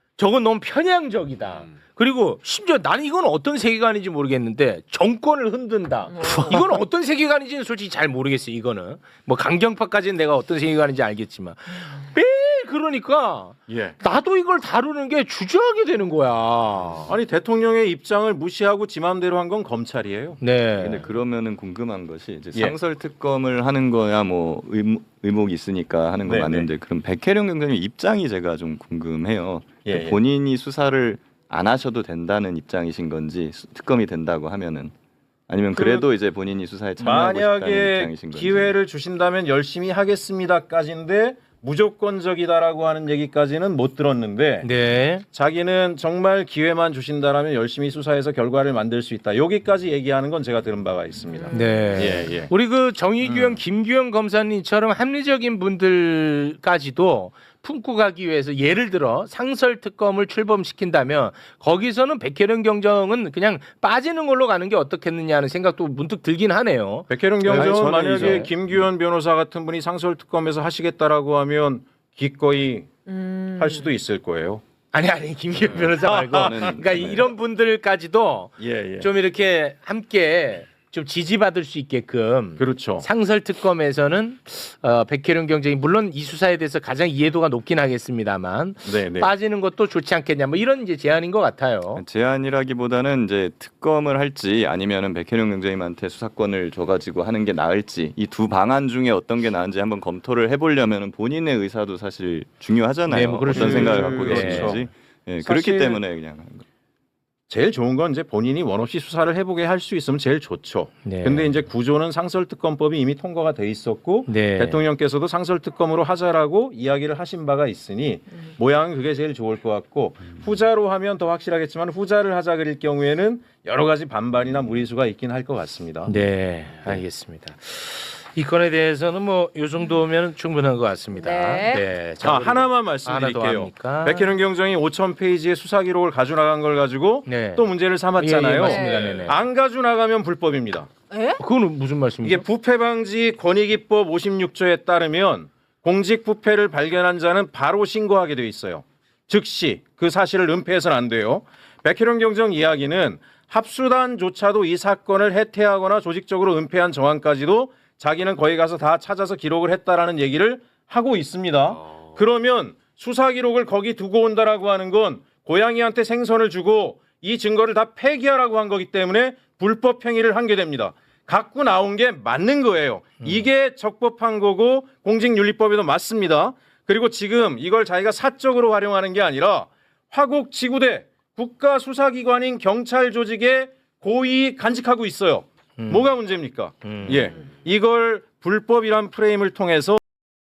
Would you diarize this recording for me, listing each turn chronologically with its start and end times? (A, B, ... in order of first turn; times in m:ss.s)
0:00.2-0:17.1 A
0:06.1-0:06.6 B
0:13.7-0:14.0 C
0:17.1-0:20.4 C
0:20.4-0:21.1 A
0:20.8-0:34.9 D
0:26.2-0:26.7 C
0:29.8-0:30.2 C
0:35.5-0:38.7 D
0:35.7-0:36.1 C
0:37.0-0:44.7 C
0:44.6-0:45.2 A
0:45.3-0:52.5 C
0:51.4-0:52.2 B
0:51.5-1:08.5 A
0:53.2-0:53.6 C
1:07.1-1:12.9 C
1:07.5-1:08.8 D
1:13.0-1:13.9 B
1:13.6-1:14.6 C
1:14.9-1:32.0 A
1:15.6-1:17.3 D
1:16.0-1:16.8 C
1:18.6-1:19.1 C
1:22.6-1:23.0 C
1:28.8-1:29.3 C
1:32.0-1:46.6 D
1:43.1-1:44.9 A
1:43.5-1:44.8 C
1:45.4-1:46.0 C
1:47.5-2:06.1 C
1:51.0-1:51.5 A
1:54.3-1:54.8 A
2:06.0-2:14.3 A
2:11.2-2:11.8 B
2:12.2-2:20.9 C
2:17.2-2:19.4 A
2:18.6-2:19.3 B
2:21.1-2:21.4 B
2:21.4-2:22.4 A
2:22.2-3:10.0 C
2:53.2-2:53.5 A
3:05.8-3:06.1 A
3:06.8-3:07.3 A